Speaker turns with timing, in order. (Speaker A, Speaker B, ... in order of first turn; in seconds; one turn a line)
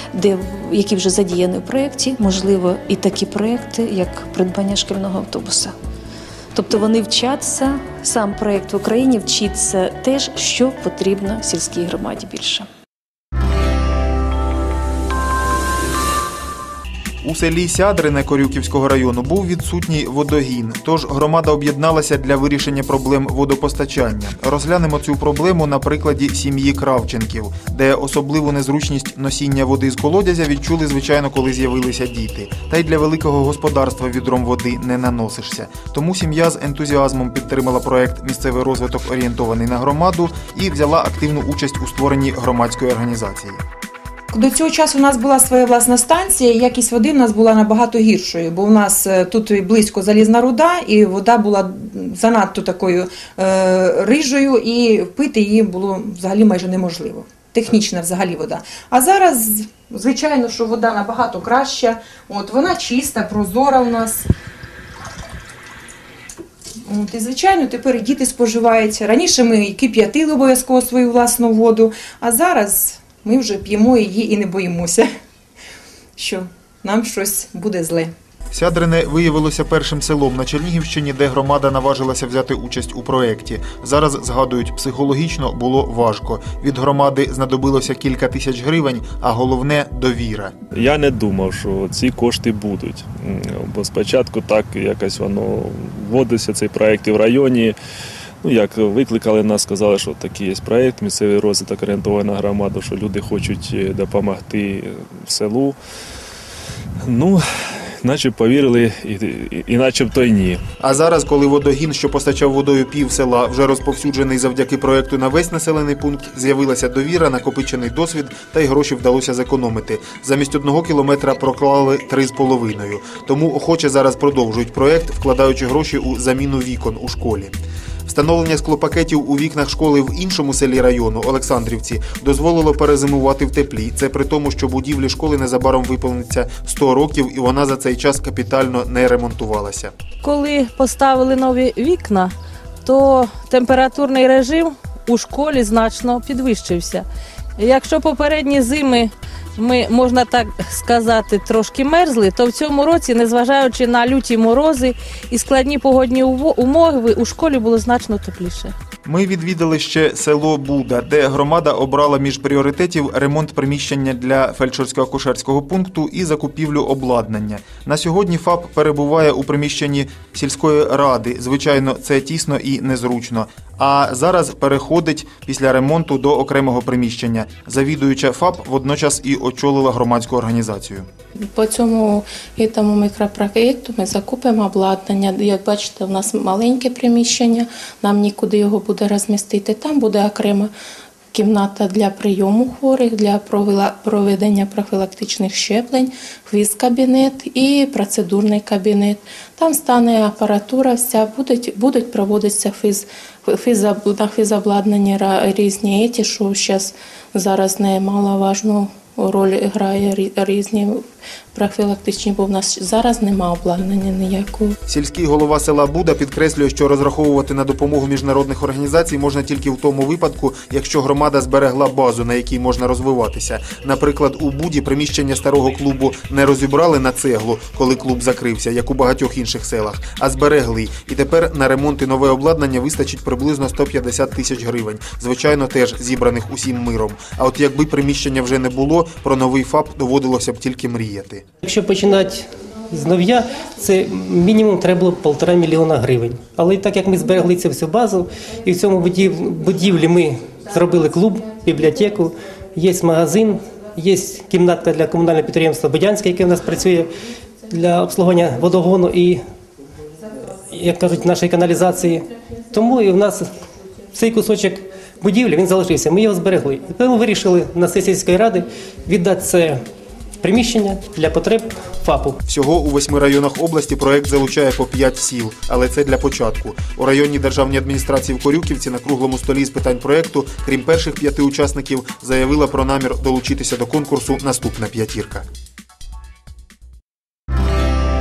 Speaker A: 0.1-5.7
Speaker A: 6.5-12.7
Speaker B: 17.2-43.6
Speaker C: 44.3-64.3
Speaker C: 66.8-75.1
Speaker C: 76.2-78.1
Speaker B: 78.5-90.5
Speaker D: 90.7-97.8
Speaker D: 98.4-105.8
Speaker D: 107.0-107.4
Speaker D: 108.0-110.6
Speaker B: 110.8-127.5
Speaker B: 128.1-139.9
Speaker E: 140.2-142.3
Speaker E: 142.8-147.0
Speaker E: 147.6-158.7
Speaker B: 159.0-181.1
Speaker F: 181.5-190.7
Speaker F: 191.3-211.0
Speaker F: 211.5-214.7
Speaker B: 214.9-241.4
Speaker G: 241.6-257.1
Speaker G: 257.7-259.4
Speaker G: 260.7-263.4
Speaker G: 264.1-269.8
Speaker G: 270.4-272.4
Speaker B: 272.5-285.4